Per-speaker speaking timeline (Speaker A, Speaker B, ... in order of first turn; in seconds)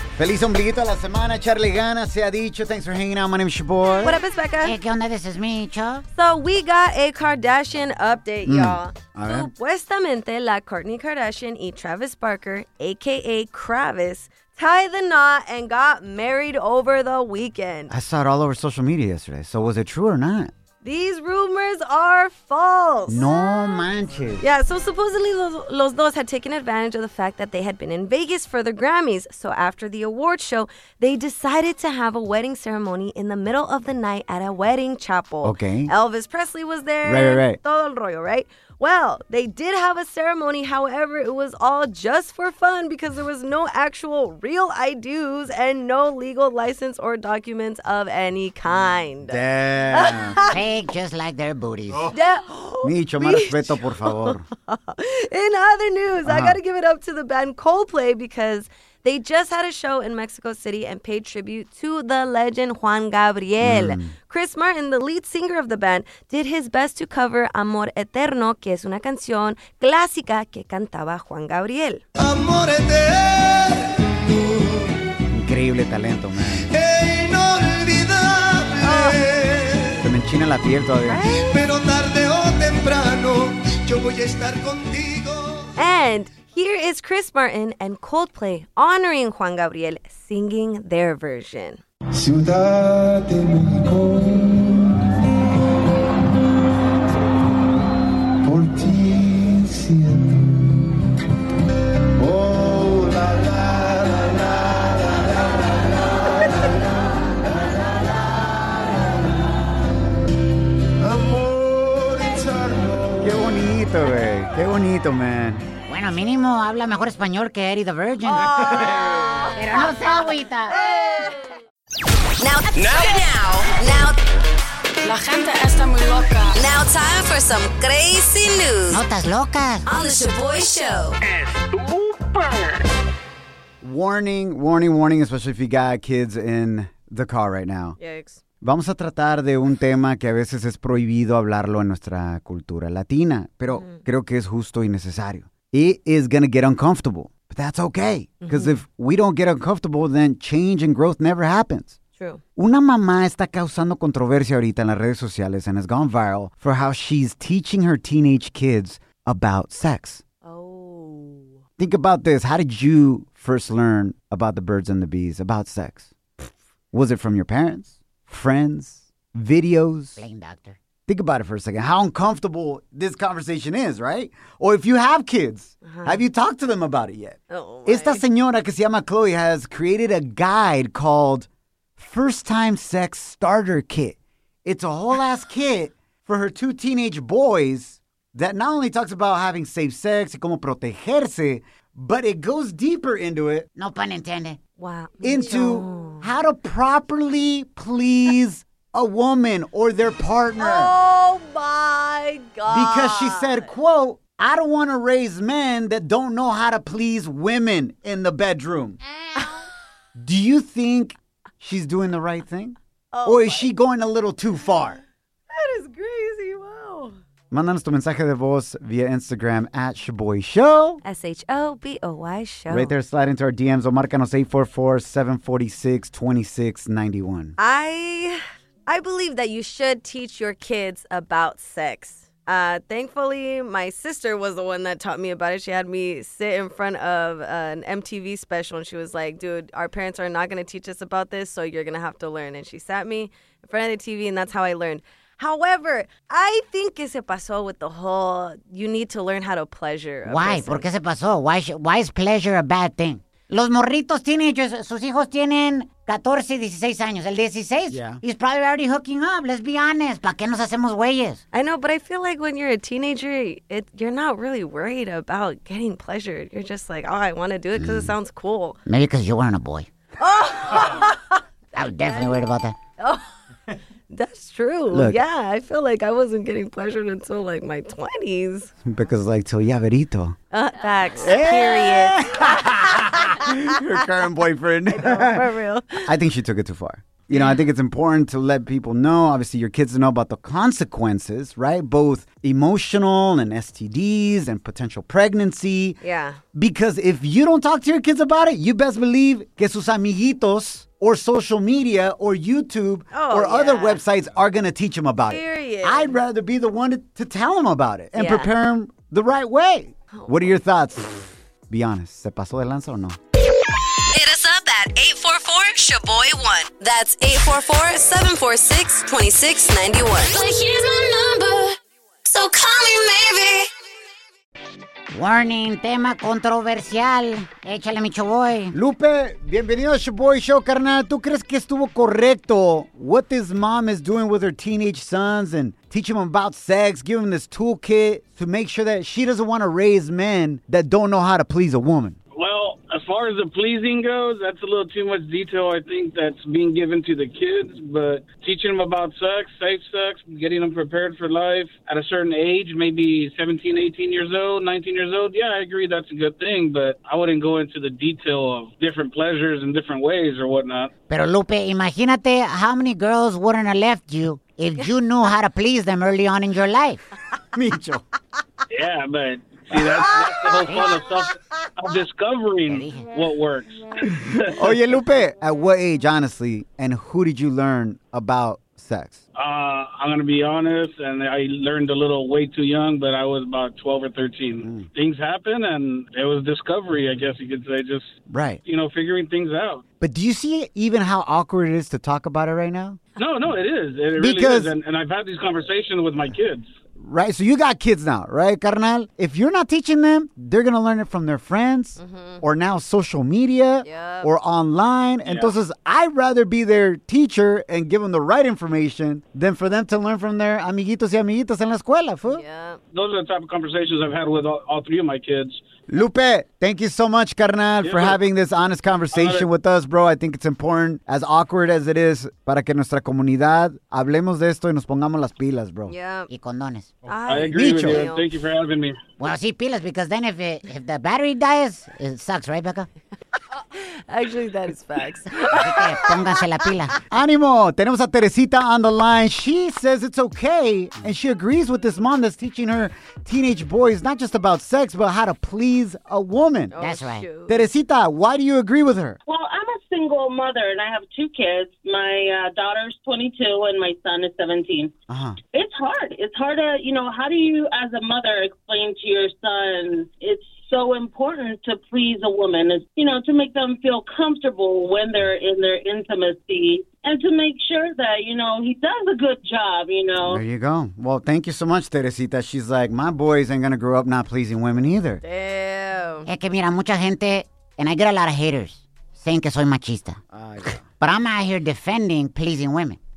Speaker A: 0.2-4.2, 8.4-9.5, 17.9-20.5, 23.1-24.5, 35.4-35.9, 37.0-37.6, 49.2-50.4, 52.8-54.4, 56.2-56.6, 63.6-64.1, 75.3-76.7, 80.0-81.2, 113.2-115.7, 133.8-138.0, 138.6-152.0, 152.6-160.2, 161.8-166.1, 166.9-170.2, 171.1-193.7, 195.2-200.9, 202.7-209.0, 210.2-215.0, 217.5-221.0, 222.7-227.6, 257.9-258.2, 267.8-268.1, 274.9-275.2, 278.8-280.4, 281.2-285.4, 286.0-296.0, 296.5-313.2, 328.7-342.2, 367.5-368.0, 374.4-379.2, 384.6-384.9, 388.3-388.6, 390.0-393.0, 394.2-394.7, 397.0-412.4, 415.9-425.9, 427.3-428.1, 437.1-446.7, 447.5-449.2, 455.1-455.4, 470.2-475.2, 480.3-480.8
Speaker B: 4.0-4.8, 6.1-17.9, 20.8-23.9, 24.4-49.4, 49.9-50.6, 52.1-72.0, 78.8-79.2, 81.0-81.6, 85.8-91.8, 118.3-121.4, 122.4-124.2, 126.5-129.0, 129.8-131.2, 138.0-138.4, 143.7-144.0, 148.4-148.8, 160.4-161.6, 175.8-176.2, 177.5-178.2, 194.8-196.3, 200.6-203.7, 213.1-213.7, 215.5-217.2, 221.0-222.9, 227.6-250.9, 261.5-268.8, 270.2-271.4, 272.0-272.4, 273.0-273.2, 274.1-278.7, 280.5-283.5, 284.9-286.1, 287.3-287.6, 296.0-296.4, 303.1-304.0, 305.3-306.2, 308.1-308.5, 310.1-310.6, 314.1-320.4, 322.2-323.7, 402.0-402.4, 403.8-404.3, 412.2-412.8, 425.9-426.3, 427.1-428.3, 433.7-436.4, 446.7-447.7, 475.2-476.3
Speaker C: 4.6-6.0, 50.4-52.2, 115.9-118.7, 119.5-120.7, 128.9-129.8, 170.2-170.8, 193.8-194.6, 195.6-196.4, 250.2-261.4, 268.9-269.9, 271.7-272.7, 325.1-328.7, 361.1-367.1, 370.6-371.0, 372.6-373.1, 426.3-426.9, 429.2-432.9, 435.4-437.0, 446.8-447.2, 476.2-480.2, 481.0-483.0
Speaker D: 72.2-75.0, 76.7-80.0, 81.3-85.7, 92.1-95.4, 98.4-100.9, 102.2-109.5, 111.0-113.4, 118.7-119.4, 122.8-123.2, 131.2-132.8
Speaker E: 122.9-123.7, 320.4-321.6
Speaker F: 342.4-360.9, 368.7-374.7, 379.4-389.8, 393.2-396.7, 405.2-405.5, 412.9-415.6, 417.8-418.2, 419.1-419.5, 427.3-429.0
Speaker G: 449.2-454.9, 455.5-470.4